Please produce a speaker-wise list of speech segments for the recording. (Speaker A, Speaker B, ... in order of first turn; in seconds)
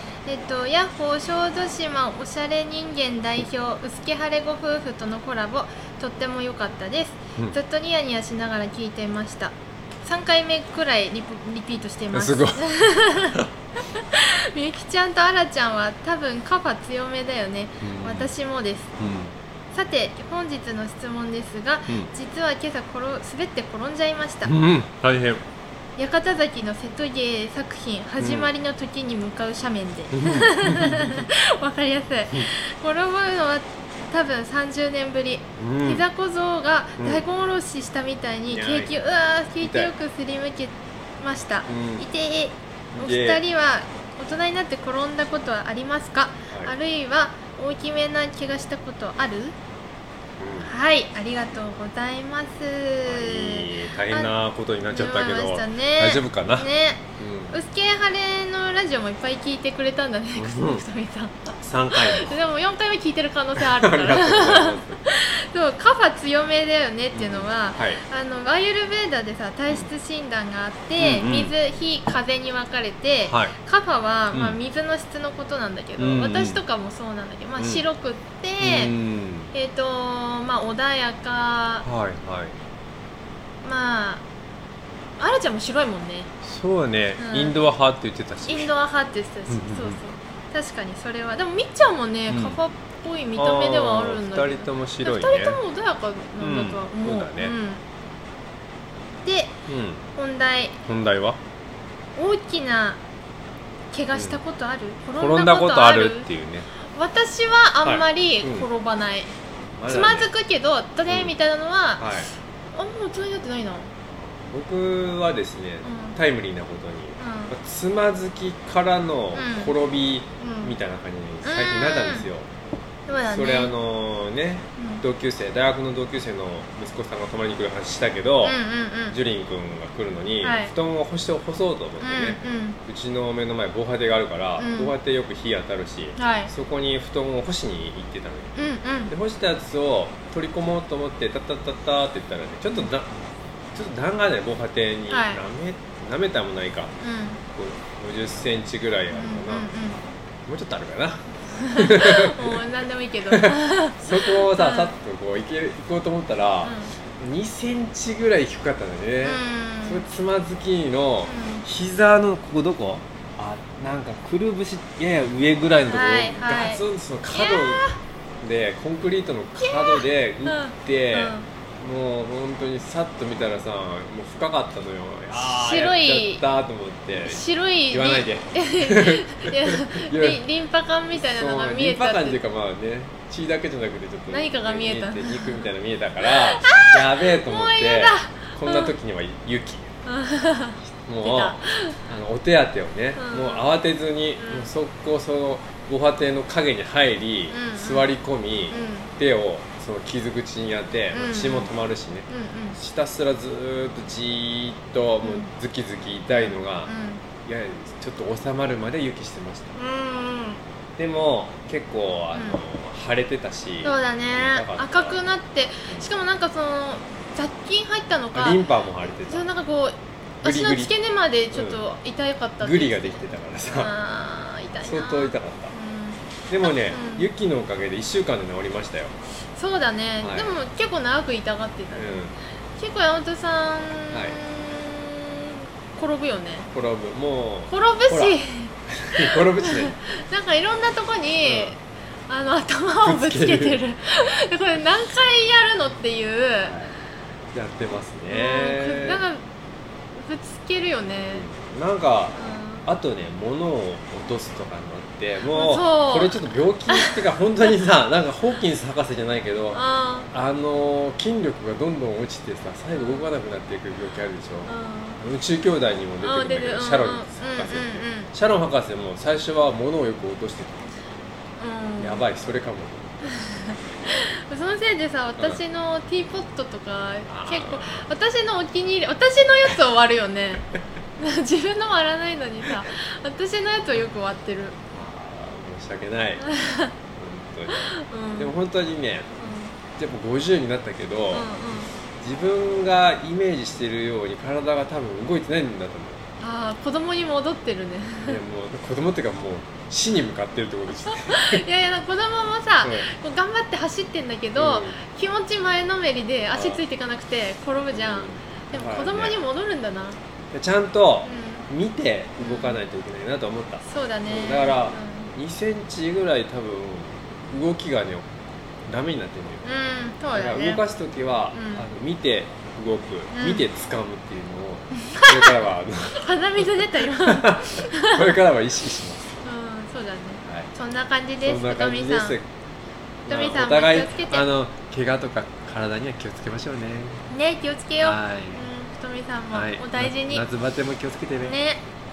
Speaker A: 0.2-18.9, 19.7-24.5, 26.0-49.5, 50.6-54.3, 54.9-78.9, 79.5-81.8, 83.6-84.2, 85.2-86.3, 87.2-87.6, 88.5-97.8, 99.2-99.5, 100.2-100.8, 102.2-103.0, 103.9-106.3, 106.9-109.3, 109.9-112.1, 112.7-113.9, 115.8-116.2, 117.2-117.5, 119.3-119.7, 120.4-120.8, 121.4-122.3, 123.1-123.7, 124.8-125.0, 128.4-129.2, 130.4-130.7, 132.0-132.8, 134.6-134.9, 136.2-136.5, 138.6-139.1, 145.1-145.4, 147.0-147.4, 149.1-150.0, 151.6-154.9, 156.6-156.9, 159.2-160.1, 161.2-161.6, 165.9-168.0, 169.6-171.5, 175.3-176.4, 177.2-182.4, 184.3-185.7, 186.2-188.9, 190.0-192.0, 193.2-193.7, 194.4-194.7, 197.5-198.1, 198.7-199.1, 201.1-201.7, 202.3-202.8, 205.2-205.5, 206.3-207.2, 209.7-210.6, 212.3-212.6, 213.8-227.3, 229.6-232.1, 232.8-236.7, 237.7-246.8, 248.3-249.4, 250.1-251.5, 252.4-252.9, 255.5-257.2, 259.7-260.3, 262.9-263.3, 264.7-265.2, 266.2-268.3, 271.6-272.3, 273.2-284.8, 286.4-286.9, 287.7-288.5, 289.4-289.7, 291.3-291.9, 296.4-298.4, 301.0-310.2, 311.2-311.7, 312.4-312.8, 313.9-315.3, 319.6-320.8, 321.5-321.9, 323.3-323.6, 325.1-325.6, 326.1-328.4, 329.4-332.4, 333.3-334.4, 337.3-340.4, 341.4-341.8
Speaker B: 12.1-12.7, 17.8-18.3, 19.0-19.3, 24.4-25.4, 28.2-28.5, 30.1-31.3, 35.6-36.0, 37.0-37.2, 38.5-39.0, 39.6-39.9, 41.7-42.1, 42.9-43.4, 46.5-46.7, 50.4-50.7, 53.0-57.6, 60.3-60.8, 61.6-62.4, 63.6-65.0, 67.1-68.0, 71.0-71.5, 73.3-73.5, 74.3-74.6, 76.0-76.6, 77.6-77.8, 78.6-79.5, 81.8-82.6, 86.4-88.7, 89.5-90.0, 92.3-92.6, 93.3-95.6, 96.4-97.5, 99.7-100.0, 100.8-101.4, 104.1-104.4, 105.2-106.7, 107.8-108.7, 109.8-110.3, 111.1-111.3, 112.0-112.3, 114.1-122.5, 123.1-128.6, 129.1-138.5, 139.1-143.1, 143.7-146.9, 147.5-149.7, 150.5-152.6, 153.3-167.9, 168.4-180.4, 181.1-189.9, 190.9-206.9, 207.4-209.8, 211.0-215.2, 218.3-219.5, 220.4-220.9, 221.5-221.8, 222.6-223.9, 224.8-225.7, 226.5-229.2, 230.2-230.6, 231.9-232.3, 234.1-234.4, 236.7-240.0, 241.4-241.7, 243.0-243.8, 246.6-246.9, 247.5-249.2, 251.2-270.9, 272.0-273.3, 277.3-278.1, 284.9-286.5, 287.1-289.3, 289.9-291.5, 292.2-296.2, 298.2-301.6, 302.8-303.1, 304.6-305.0, 306.5-306.8, 307.9-309.4, 310.5-318.2, 318.9-319.7, 320.3-329.4, 330.4-330.7, 331.4-332.4, 333.3-337.2, 338.0-338.6, 339.5-341.6